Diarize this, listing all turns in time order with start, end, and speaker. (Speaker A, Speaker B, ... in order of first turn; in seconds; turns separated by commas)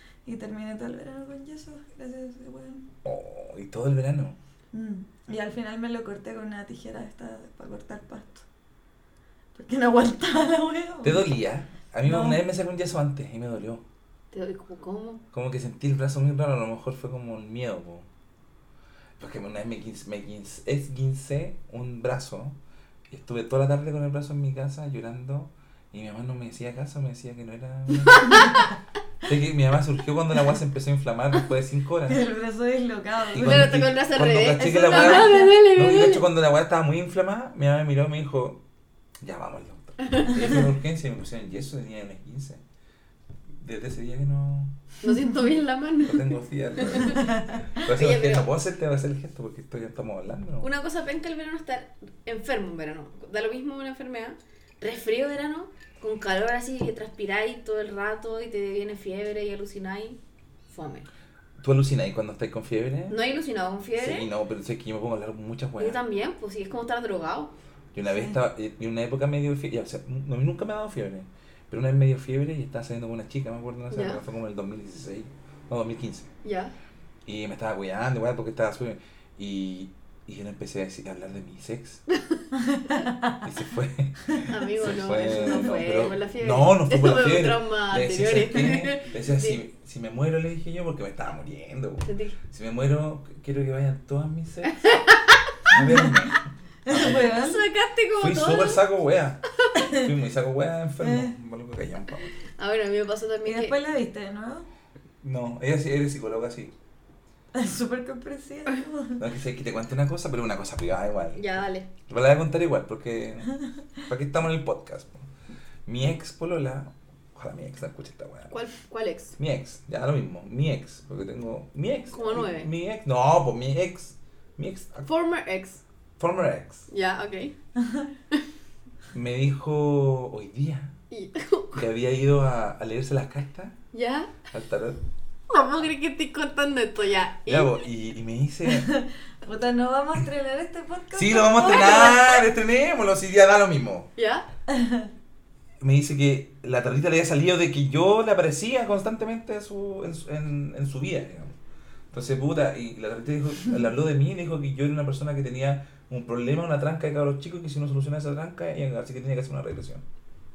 Speaker A: 0.2-2.9, Speaker B: 3.0-4.4, Speaker A: 4.7-8.4, Speaker A: 9.5-11.3, Speaker B: 11.0-13.8, Speaker A: 12.0-12.4, Speaker C: 14.3-15.2, Speaker B: 15.3-18.1, Speaker B: 19.2-22.6, Speaker B: 23.1-28.5, Speaker C: 28.1-28.7, Speaker B: 29.2-32.2, Speaker A: 32.1-33.7, Speaker B: 33.3-38.6, Speaker C: 33.3-36.2, Speaker A: 34.6-35.5, Speaker B: 39.2-42.6, Speaker C: 40.0-40.4, Speaker B: 43.6-44.7, Speaker C: 45.0-48.5, Speaker B: 46.0-50.7, Speaker A: 47.2-47.5, Speaker C: 50.6-60.2, Speaker C: 60.7-61.1, Speaker B: 61.6-63.2, Speaker C: 63.1-64.3, Speaker B: 64.0-66.0, Speaker C: 65.8-67.5, Speaker B: 67.9-76.3, Speaker C: 73.9-74.2, Speaker C: 76.4-76.7, Speaker B: 77.2-82.0, Speaker C: 82.1-82.4, Speaker A: 82.6-83.4, Speaker B: 83.4-95.0, Speaker C: 84.5-89.6, Speaker C: 92.0-92.4, Speaker C: 94.7-95.4, Speaker B: 95.7-97.5, Speaker A: 95.7-96.1, Speaker A: 96.8-97.6, Speaker C: 97.3-98.8, Speaker B: 98.2-99.4, Speaker B: 99.9-102.3, Speaker A: 101.0-101.3, Speaker C: 102.6-103.8, Speaker A: 103.4-104.7, Speaker B: 105.2-106.7, Speaker A: 107.5-109.2, Speaker B: 109.2-111.4, Speaker C: 111.3-111.9, Speaker B: 112.1-113.5, Speaker B: 114.1-115.3, Speaker B: 115.8-118.6, Speaker C: 118.5-119.3, Speaker B: 119.4-125.1, Speaker C: 122.1-122.7, Speaker C: 125.1-125.8, Speaker B: 126.2-126.9, Speaker C: 126.9-127.5, Speaker A: 127.8-128.1, Speaker B: 129.1-130.9, Speaker C: 131.1-131.8, Speaker B: 131.7-133.8, Speaker C: 133.9-134.4, Speaker B: 134.5-135.0, Speaker C: 135.5-137.7, Speaker B: 137.5-138.9, Speaker A: 138.7-142.2, Speaker B: 141.1-144.1, Speaker C: 141.7-142.4, Speaker C: 144.2-144.4, Speaker A: 144.7-145.1, Speaker B: 145.8-151.5, Speaker B: 152.1-160.0